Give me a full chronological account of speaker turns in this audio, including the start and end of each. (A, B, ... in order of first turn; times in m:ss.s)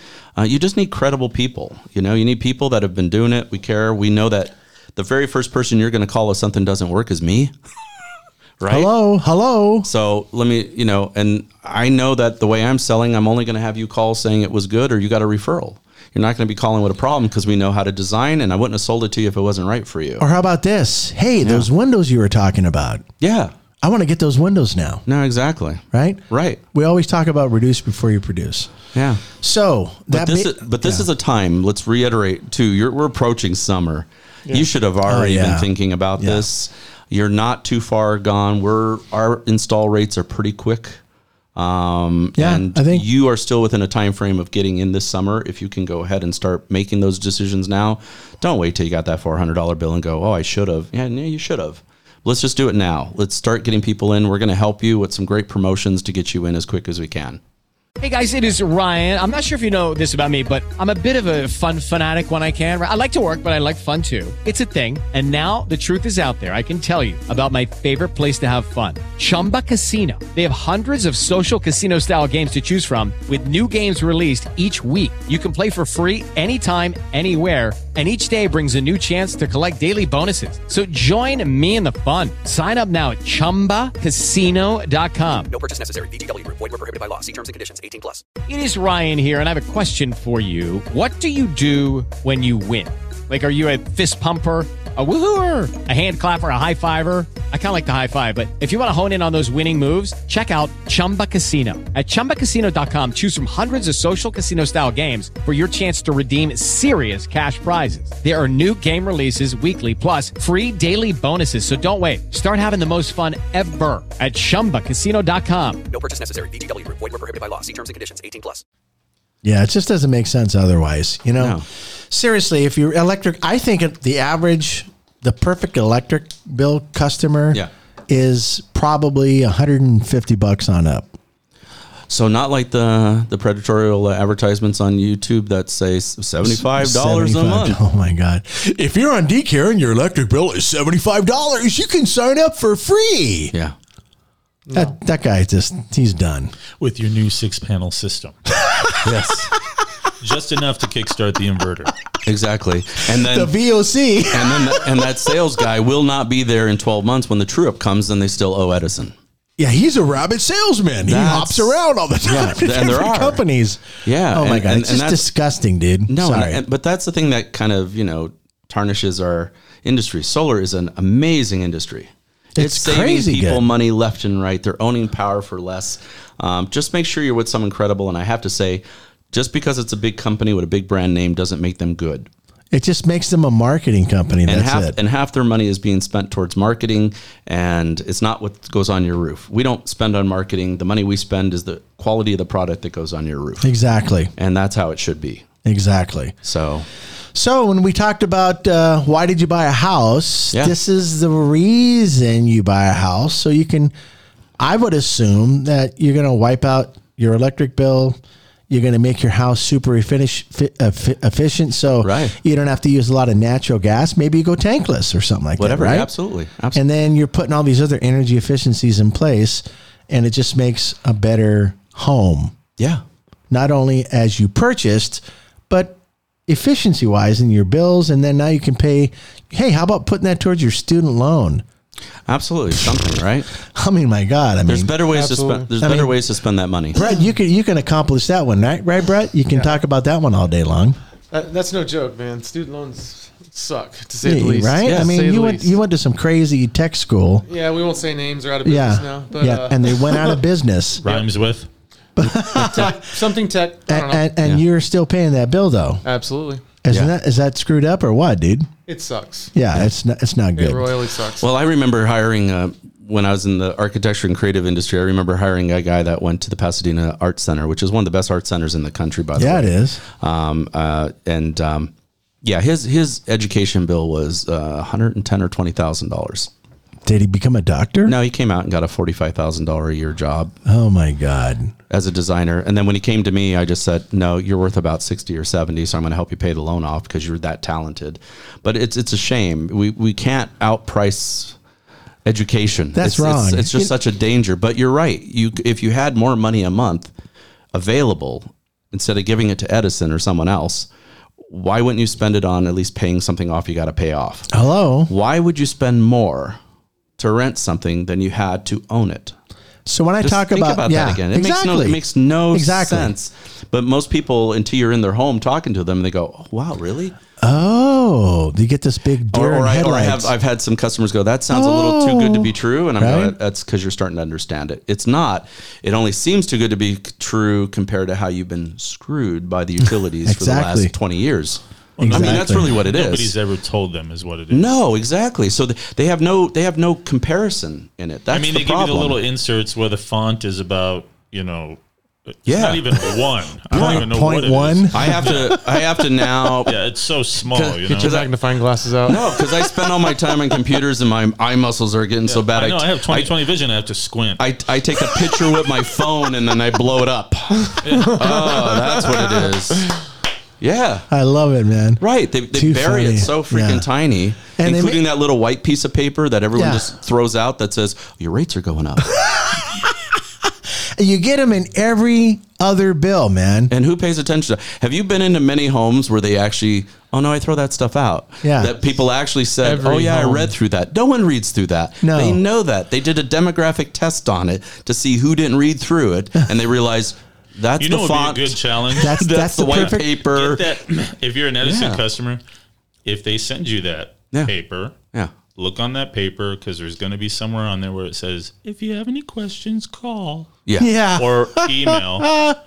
0:00.4-0:07.5 A
0:08.6-0:08.9 A
0:08.7-0:09.9 B
0:09.8-0:20.3 A
0:20.2-0:23.0 B
0:21.4-0:21.7 A
0:23.2-0:23.5 A
0:23.8-0:25.0 B
0:25.1-0:26.6 A
0:25.9-0:26.2 B
0:26.7-0:28.7 B
0:28.9-0:29.2 A
0:29.4-0:31.1 B
0:30.1-0:41.0 A
0:35.1-0:36.5 B
0:41.6-0:57.4 A
0:42.4-0:43.1 B
0:58.0-1:25.5 C
1:25.5-1:28.2 D
1:28.5-1:55.8 C
1:55.9-1:58.6 D
1:59.4-2:01.6 B
2:01.4-2:01.6 A
2:02.1-2:11.1 B
2:12.1-2:17.8 A
2:16.4-2:23.5 B
2:24.7-2:25.0 E
2:24.7-2:26.5 B
2:26.8-2:28.4 F
2:29.0-2:29.5 A
2:30.2-2:31.9 F
2:32.2-2:33.5 A
2:33.2-2:35.3 B
2:34.3-2:39.2 A
2:39.6-2:46.6 B
2:41.1-2:43.4 A
2:44.0-2:45.3 A
2:46.1-3:02.3 A
2:52.6-2:53.7 B
3:02.7-3:05.0 B
3:04.5-3:13.7 A
3:13.6-3:14.3 B
3:14.4-3:15.4 A
3:15.6-3:16.4 B
3:16.4-3:16.9 A
3:17.3-3:23.9 B
3:24.6-3:28.2 B
3:28.7-3:36.1 B
3:32.0-3:32.4 A
3:35.6-3:36.8 A
3:36.7-3:42.6 B
3:43.5-3:51.6 B
3:52.3-3:53.5 A
3:53.6-3:55.0 B
3:54.7-3:57.0 A
3:55.1-3:55.7 E
3:55.8-3:56.1 B
3:57.0-4:01.0 B
3:59.5-3:59.8 E
4:01.3-4:05.8 E
4:04.2-4:07.4 B
4:04.8-4:05.1 A
4:07.4-4:10.4 E
4:08.6-4:11.0 B
4:11.0-4:11.7 F
4:12.2-4:13.0 B
4:12.4-4:14.3 E
4:13.9-4:16.0 B
4:16.0-4:16.7 E
4:16.8-4:18.7 B
4:18.9-4:19.5 E
4:19.5-4:20.9 B
4:20.6-4:21.5 E
4:21.4-4:31.9 A
4:29.4-4:30.0 B
4:32.4-4:36.5 A
4:37.0-4:38.2 B
4:38.1-4:40.5 A
4:40.7-4:41.7 B
4:41.9-4:51.6 A
4:52.2-4:57.1 A
4:53.0-4:53.9 B
4:57.7-5:00.9 A
5:01.5-5:04.5 A
5:04.5-5:05.1 B
5:05.1-5:06.6 A
5:07.2-5:09.4 A
5:09.9-5:12.0 B
5:10.2-5:17.2 A
5:12.5-5:13.1 B
5:17.4-5:20.3 B
5:19.3-5:33.3 A
5:21.5-5:23.4 B
5:30.3-5:30.9 B
5:32.0-5:34.7 F
5:32.0-5:32.8 B
5:34.5-5:39.2 A
5:38.3-5:41.8 F
5:42.4-5:45.6 F
5:42.5-5:43.2 A
5:43.7-5:44.1 A
5:43.7-5:45.6 B
5:44.9-5:46.8 A
5:46.6-5:48.2 F
5:47.5-5:48.3 A
5:47.8-5:49.4 E
5:49.0-5:53.3 A
5:52.3-5:54.4 F
5:54.4-5:59.9 A
5:57.8-5:58.2 F
5:58.4-5:59.0 E
6:00.6-6:01.1 A
6:01.1-6:02.0 B
6:02.0-6:09.2 A
6:02.5-6:03.9 B
6:04.6-6:05.0 B
6:06.6-6:06.8 B
6:09.0-6:09.9 B
6:11.0-6:13.7 B
6:13.7-6:30.7 A
6:18.4-6:18.7 B
6:19.6-6:20.5 E
6:22.0-6:22.4 B
6:27.8-6:32.4 F
6:29.0-6:30.2 B
6:31.6-6:32.0 A
6:33.0-6:35.0 F
6:35.5-6:40.5 F
6:40.7-6:40.9 A
6:40.8-6:42.6 B
6:41.2-6:42.3 F